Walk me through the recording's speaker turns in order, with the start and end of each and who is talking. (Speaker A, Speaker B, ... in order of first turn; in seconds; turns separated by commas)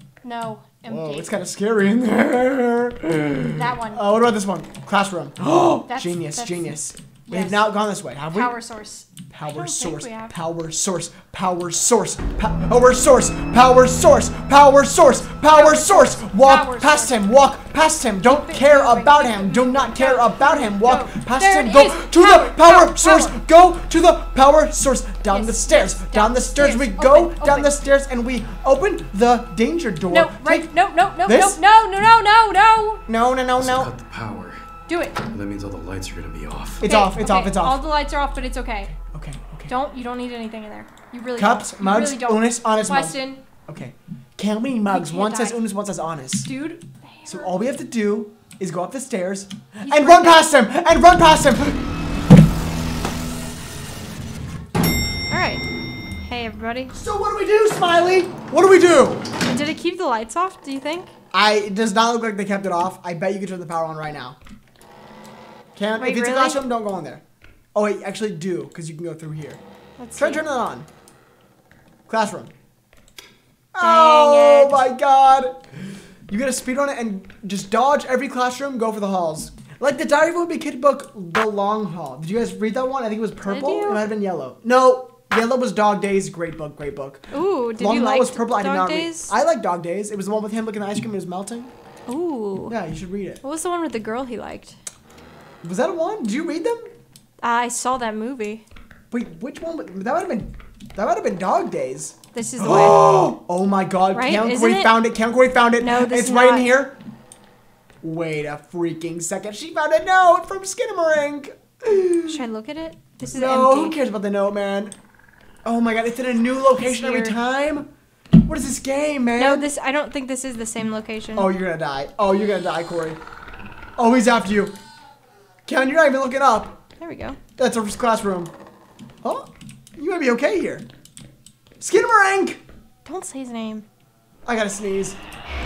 Speaker A: 0.2-1.3, Speaker B: 0.9-8.6, Speaker A: 3.5-4.1, Speaker A: 5.9-6.8, Speaker A: 7.3-7.8, Speaker A: 8.3-10.4, Speaker B: 9.3-30.7, Speaker A: 15.5-17.2, Speaker A: 18.3-23.4, Speaker A: 25.3-27.8, Speaker A: 30.1-33.0, Speaker B: 31.2-31.6, Speaker B: 33.1-33.9, Speaker C: 33.6-34.6, Speaker A: 34.9-35.2, Speaker C: 35.2-36.9, Speaker B: 36.8-37.9, Speaker A: 36.8-39.0, Speaker B: 39.0-39.7, Speaker A: 39.7-43.4, Speaker B: 41.4-46.5, Speaker A: 44.9-45.6, Speaker A: 46.5-47.6, Speaker B: 47.3-51.8, Speaker A: 49.8-50.6, Speaker A: 55.3-55.6, Speaker A: 56.2-57.0, Speaker B: 56.9-59.3, Speaker A: 59.4-61.1, Speaker B: 61.3-64.4, Speaker B: 65.8-67.2, Speaker A: 66.0-66.6, Speaker B: 67.8-69.6, Speaker A: 70.0-70.4, Speaker B: 70.2-70.9, Speaker B: 72.1-72.5, Speaker B: 73.7-75.6, Speaker A: 73.8-74.8, Speaker B: 76.3-87.2, Speaker A: 83.4-84.1, Speaker A: 87.3-89.3, Speaker B: 87.8-91.7, Speaker A: 92.1-92.8, Speaker B: 92.7-93.4, Speaker A: 93.4-94.8, Speaker B: 95.6-96.9, Speaker A: 97.4-98.7, Speaker B: 99.1-107.0, Speaker A: 102.3-103.3, Speaker A: 104.1-105.0, Speaker A: 105.8-106.8, Speaker B: 108.0-112.4, Speaker A: 112.3-114.0, Speaker B: 113.3-115.0, Speaker B: 115.7-119.7, Speaker A: 116.8-117.4, Speaker A: 119.4-121.5, Speaker B: 121.4-123.2, Speaker B: 124.0-124.8, Speaker B: 125.7-126.8, Speaker A: 127.0-127.4, Speaker B: 127.6-128.5, Speaker B: 129.2-130.9, Speaker B: 131.8-132.6, Speaker A: 133.1-133.8, Speaker B: 134.5-135.2